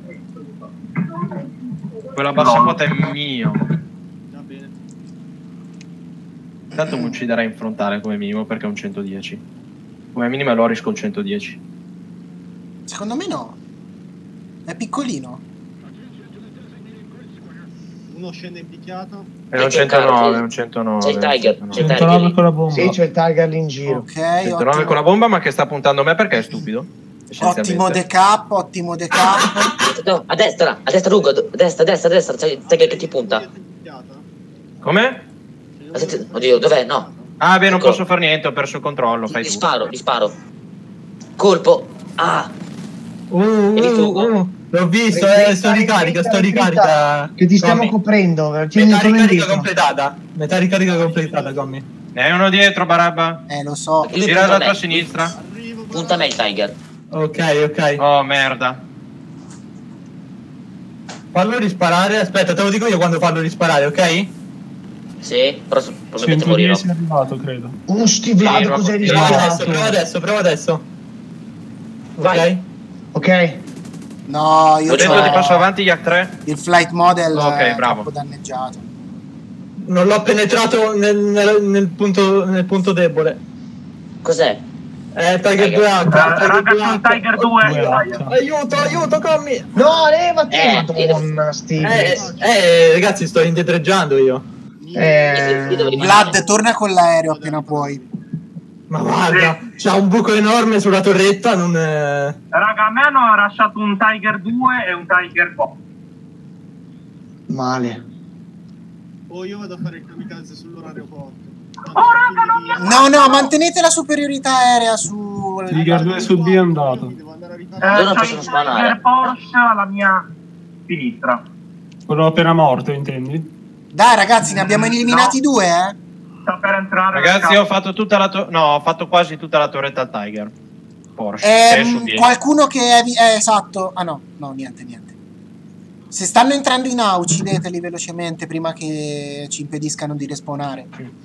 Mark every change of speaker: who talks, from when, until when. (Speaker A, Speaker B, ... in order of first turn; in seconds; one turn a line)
Speaker A: 2.1-3.6
Speaker B: 2.4-3.1
Speaker C: 4.3-4.8
Speaker D: 6.7-7.2
Speaker A: 6.8-9.4
Speaker A: 10.1-11.6
Speaker D: 12.9-13.6
Speaker D: 14.7-15.4
Speaker C: 18.1-19.3
Speaker A: 19.5-21.9
Speaker E: 19.6-20.5
Speaker E: 21.0-22.4
Speaker F: 21.8-23.0
Speaker G: 22.7-24.1
Speaker D: 23.9-25.0
Speaker A: 24.4-28.0
Speaker D: 27.4-29.8
Speaker E: 29.8-33.4
Speaker C: 32.6-34.2
Speaker A: 34.8-35.2
Speaker C: 35.8-37.5
Speaker E: 36.0-37.1
Speaker A: 37.4-39.7
Speaker E: 37.7-38.0
Speaker E: 39.3-40.4
Speaker E: 41.4-42.5
Speaker H: 43.3-48.0
Speaker E: 43.8-44.3
Speaker G: 45.1-49.7
Speaker H: 48.8-51.9
Speaker C: 50.6-51.8
Speaker A: 52.1-53.4
Speaker D: 53.5-54.2
Speaker E: 54.0-54.9
Speaker A: 54.2-55.4
Speaker C: 54.9-56.5
Speaker E: 55.9-56.8
Speaker H: 57.1-58.0
Speaker A: 58.0-58.8
Speaker H: 61.3-64.3
Speaker E: 65.2-66.8
Speaker F: 66.2-67.8
Speaker G: 67.9-69.6
Speaker A: 68.4-69.4
Speaker H: 69.0-70.8
Speaker F: 69.0-70.0
Speaker H: 72.2-72.7
Speaker G: 73.1-73.6
Speaker D: 74.3-75.7
Speaker A: 74.8-76.4
Speaker D: 76.5-78.9
Speaker A: 77.3-78.1
Speaker H: 79.8-83.4
Speaker E: 84.2-84.6
Speaker H: 85.2-87.6
Speaker E: 85.5-86.0
Speaker B: 86.0-88.3
Speaker F: 87.6-89.1
Speaker H: 88.3-89.7
Speaker G: 89.7-92.4
Speaker E: 90.5-91.3
Speaker H: 91.8-94.5
Speaker C: 91.8-93.2
Speaker C: 94.8-98.2
Speaker G: 95.0-96.4
Speaker E: 95.3-96.3
Speaker D: 95.9-98.0
Speaker H: 98.9-102.4
Speaker B: 99.3-99.7
Speaker B: 102.5-105.8
Speaker G: 107.5-108.0
Speaker C: 109.3-113.5
Speaker B: 111.9-113.4
Speaker D: 112.8-116.3
Speaker F: 115.7-117.1
Speaker C: 115.7-119.0
Speaker B: 117.8-120.3
Speaker E: 118.0-119.0
Speaker B: 120.9-121.4
Speaker F: 122.1-123.5
Speaker D: 123.9-126.0
Speaker B: 124.6-125.3
Speaker B: 126.5-127.6
Speaker A: 127.1-130.5
Speaker A: 131.2-132.3
Speaker D: 131.4-135.1
Speaker D: 136.1-140.9